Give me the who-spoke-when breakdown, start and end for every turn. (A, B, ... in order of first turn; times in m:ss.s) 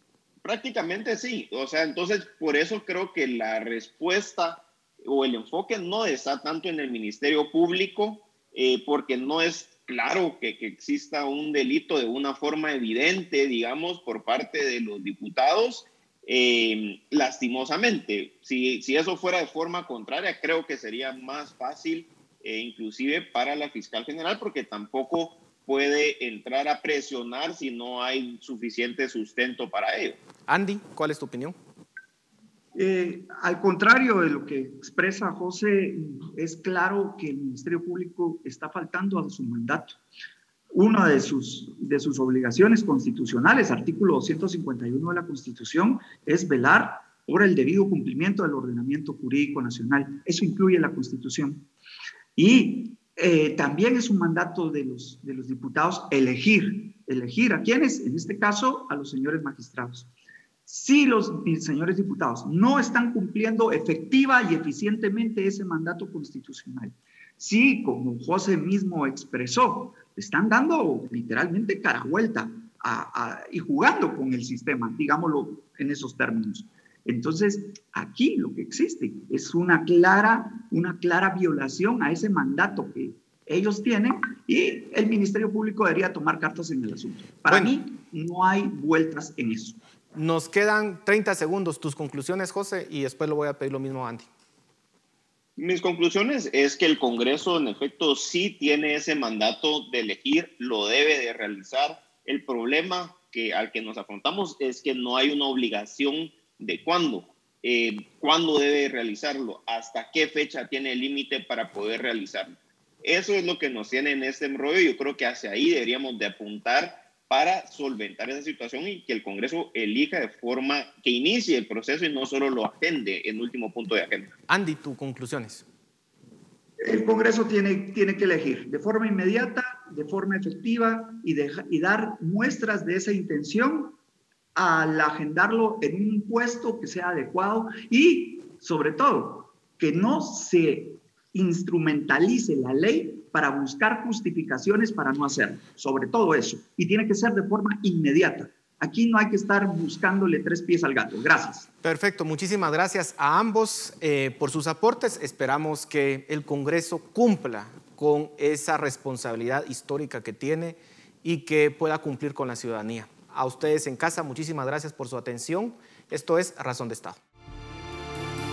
0:00.4-0:30.2 A
0:30.5-0:31.6 B
0:32.7-0:40.0 C
0:40.7-0:51.7 C
0:52.4-1:00.1 C
1:00.6-1:29.8 C
1:27.5-1:27.7 B
1:30.1-1:34.3 B
1:35.6-2:04.3 A
2:04.5-2:05.6 B
2:06.8-2:14.0 C
2:14.5-2:31.7 C
2:31.8-2:47.2 B